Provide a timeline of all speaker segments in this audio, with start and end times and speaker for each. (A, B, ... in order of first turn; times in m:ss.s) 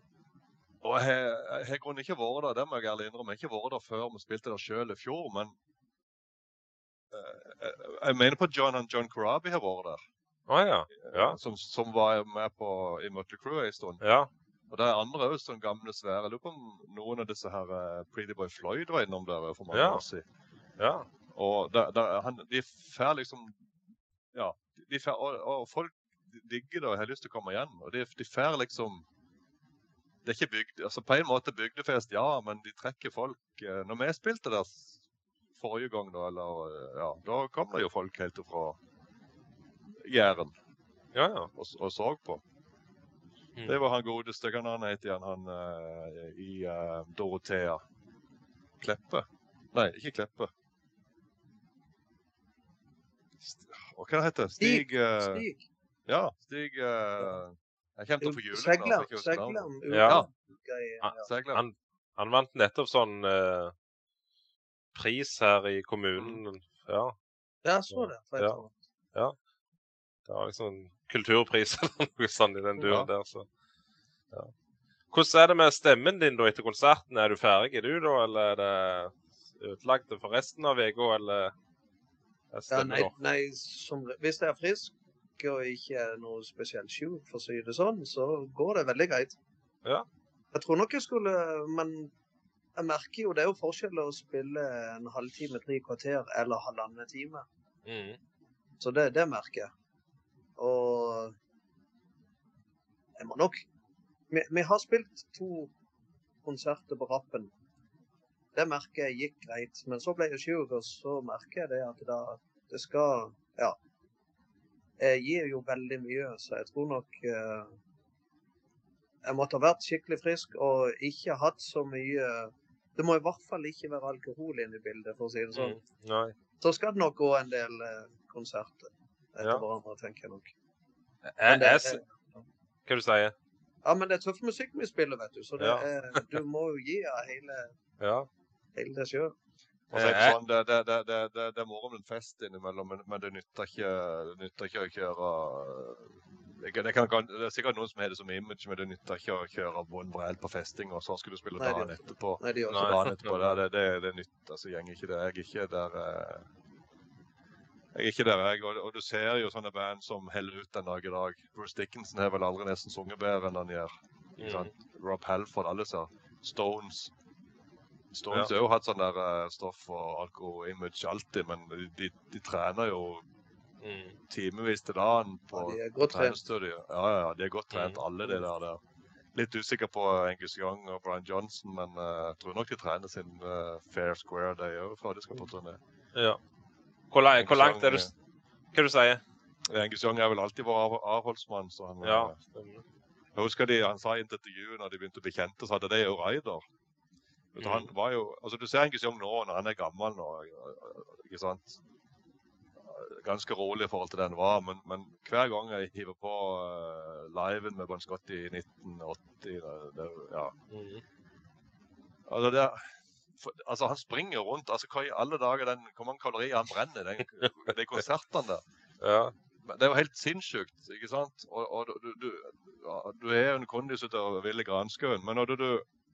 0:00.8-0:05.6 A
0:07.1-0:10.0 A
0:10.5-0:11.4 B
0:11.0-0:14.0 A
0:14.0-0:14.3 B
0:14.7-0:20.2 A
0:19.7-0:20.0 B
0:20.8-0:21.1 B
0:21.3-0:23.7 A
0:24.3-0:29.0 A
0:30.2-0:35.0 A
0:35.6-0:38.8 A
0:39.9-0:40.5 A
0:41.2-0:41.5 B
0:41.6-0:42.4 A
0:43.6-0:47.8 A
0:48.8-0:50.5 A
0:53.4-0:55.4 A
0:54.6-0:55.6 C
0:56.1-1:00.3 A
0:58.2-1:01.3 C
0:59.9-1:00.2 B
1:01.0-1:03.7 B
1:01.2-1:01.6 A
1:05.0-1:07.2 B
1:07.6-1:08.8 C
1:07.9-1:08.6 B
1:10.3-1:13.5 B
1:12.8-1:13.1 A
1:15.1-1:21.5 B
1:22.5-1:23.1 B
1:22.7-1:29.4 C
1:30.5-1:32.1 C
1:32.8-1:37.5 C
1:37.9-1:38.2 B
1:38.8-1:39.7 C
1:40.6-1:41.4 C
1:43.2-1:43.6 C
1:44.3-1:45.7 C
1:46.4-1:47.5 C
1:48.6-1:53.8 C
1:55.0-1:57.8 C
1:59.2-2:05.8 C
2:05.5-2:06.3 B
2:06.6-2:10.5 C
2:11.3-2:12.0 B
2:11.5-2:12.4 C
2:12.9-2:13.3 B
2:13.8-2:17.7 C
2:15.6-2:16.4 B
2:18.0-2:18.3 B
2:18.8-2:19.3 C
2:19.9-2:36.5 A
2:19.9-2:20.4 B
2:31.6-2:33.1 C
2:32.7-2:33.6 B
2:37.9-2:47.1 A
2:44.4-2:44.7 B
2:48.1-2:53.2 A
2:53.8-2:54.2 B
2:54.3-2:58.8 A
2:55.5-2:56.4 C
2:57.7-2:58.0 B
2:59.3-3:05.8 A
3:07.1-3:08.1 B
3:07.4-3:08.1 A
3:08.7-3:09.2 B
3:09.7-3:12.4 A
3:12.0-3:12.8 B
3:13.4-3:16.6 A
3:17.5-3:21.8 A
3:17.6-3:17.9 B
3:22.8-3:30.6 A
3:30.7-3:31.0 B
3:32.3-3:38.6 A
3:39.0-3:39.3 B
3:39.6-3:45.9 A